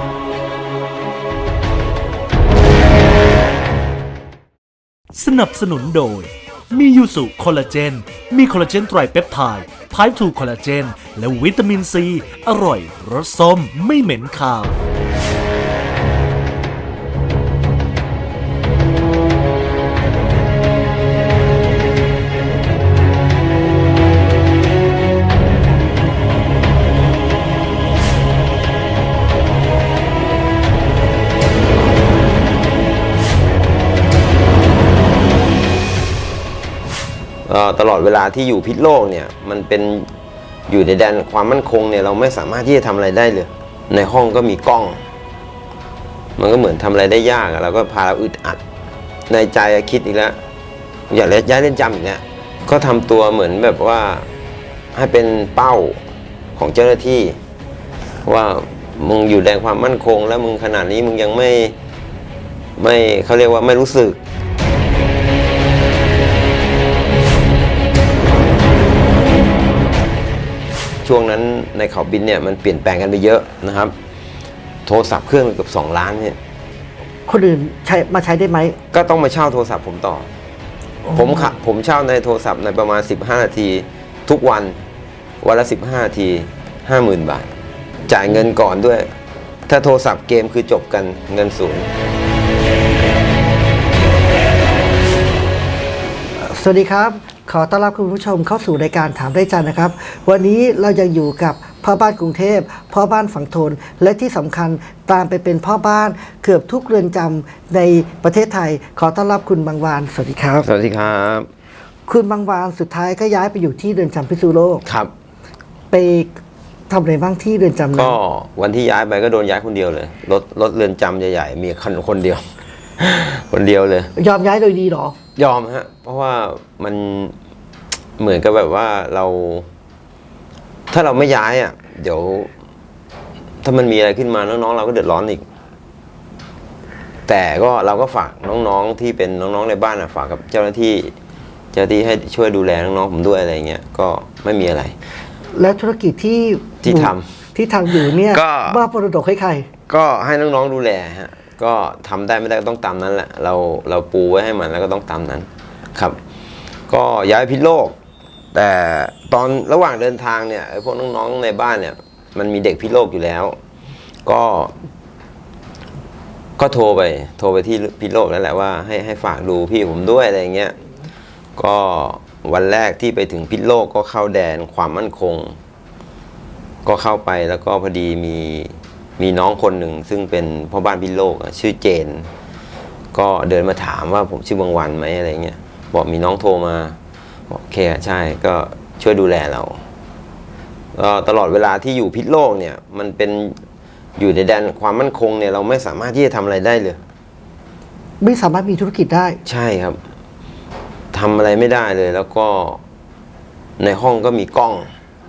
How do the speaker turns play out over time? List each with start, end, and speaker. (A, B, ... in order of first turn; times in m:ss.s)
0:05.1-0:14.8 A
0:37.4-0:40.1 B
0:40.7-0:45.0 B
0:46.4-0:48.6 B
0:49.3-0:50.4 B
0:51.1-0:54.3 B
0:54.9-0:56.0 B
0:56.6-0:57.4 B
0:58.2-1:01.8 B
1:02.8-1:04.2 B
1:11.0-1:13.9 B
1:14.8-1:16.4 B
1:17.2-1:18.8 C
1:18.9-1:20.3 B
1:21.0-1:21.5 C
1:21.1-1:24.8 B
1:25.4-1:27.5 B
1:28.1-1:29.1 B
1:29.7-1:31.9 B
1:36.4-1:50.7 C
1:50.6-1:51.5 B
1:52.1-1:54.8 C
1:54.8-1:55.1 B
1:55.9-1:56.3 C
1:56.9-1:58.2 C
1:57.9-2:02.4 B
2:03.0-2:04.1 B
2:04.2-2:05.1 C
2:05.4-2:07.3 B
2:08.2-2:09.7 B
2:10.9-2:12.5 B
2:13.6-2:15.4 B
2:17.3-2:21.1 B
2:21.7-2:25.0 B
2:25.5-2:29.7 C
2:26.8-2:27.2 B
2:27.9-2:28.8 B
2:29.9-2:36.2 B
2:36.9-2:38.0 B
2:38.5-2:43.6 B
2:44.2-2:44.7 B
2:46.6-2:50.7 B
2:51.6-2:55.6 B
2:56.8-3:02.3 B
3:03.1-3:07.0 B
3:07.5-3:09.8 B
3:10.9-3:13.6 B
3:14.2-3:17.0 B
3:18.2-3:19.4 C
3:19.4-3:20.0 B
3:21.1-3:22.8 B
3:23.8-3:24.9 B